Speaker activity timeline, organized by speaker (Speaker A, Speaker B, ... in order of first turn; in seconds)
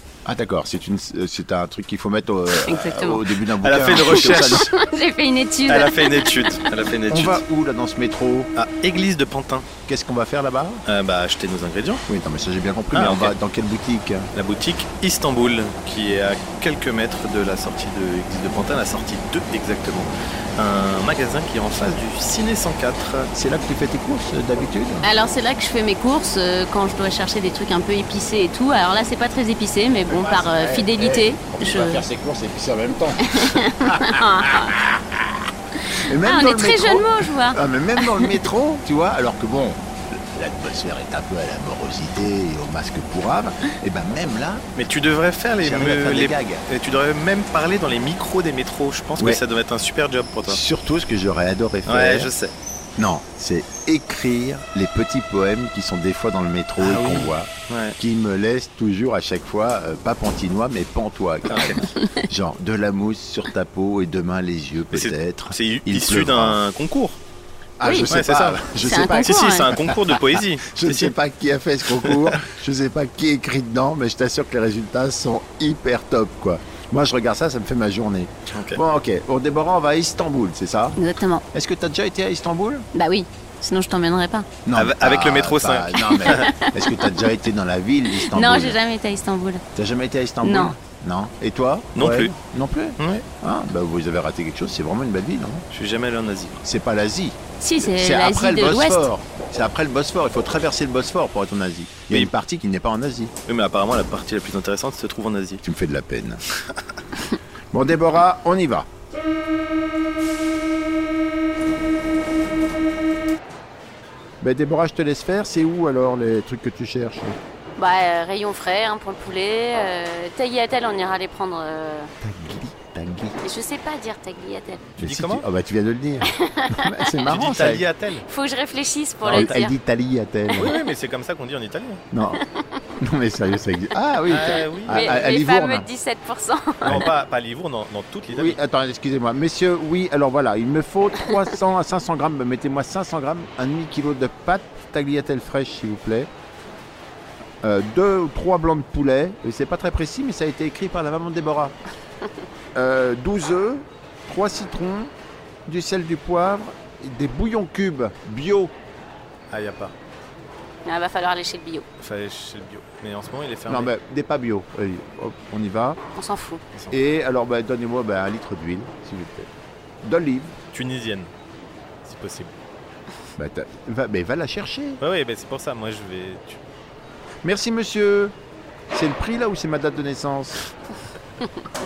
Speaker A: 0.2-4.7, 7.1-8.5, 9.8-10.8, 12.1-14.3, 23.3-25.1, 30.1-44.7, 45.6-46.6, 50.5-52.3, 53.0-66.6, 67.8-81.0, 81.5-82.9, 84.6-88.8, 89.7-95.6, 96.6-103.3, 105.6-106.4, 107.7-108.9, 114.4-117.4, 122.2-123.3, 125.0-127.8, 129.3-130.7, 132.1-132.4, 133.0-135.8, 138.3-146.3, 147.6-151.7, 152.7-155.1, 155.7-158.7, 163.7-166.0, 166.9-169.5, 170.0-170.5, 173.4-175.0, 177.4-178.3, 178.9-180.6
Speaker B: 2.5-3.3, 4.1-6.7, 25.0-32.0, 33.2-34.7, 35.9-38.4, 67.8-68.1, 68.8-69.7, 81.0-81.4, 82.9-84.5, 86.0-87.2, 88.1-89.6, 90.4-90.7, 97.6-99.1, 117.8-122.1, 123.4-124.9, 126.3-127.1, 128.3-129.7, 134.8-137.0, 160.8-161.8, 166.2-166.6
Speaker C: 3.6-4.7, 5.7-7.4, 8.6-9.7, 10.9-12.0, 12.9-13.3, 14.3-23.3, 44.8-50.6, 51.9-52.5, 56.8-58.0, 61.5-61.7, 64.9-67.2, 68.1-71.1, 72.0-72.4, 78.5-78.8, 84.7-86.5, 91.9-92.3, 93.0-93.3, 95.7-96.6, 103.5-105.6, 125.0-125.4, 127.2-128.2, 129.2-129.6, 130.6-132.0, 134.3-135.2, 136.8-138.6, 159.5-159.9, 162.0-163.9, 170.7-171.3, 172.0-172.5, 175.0-176.6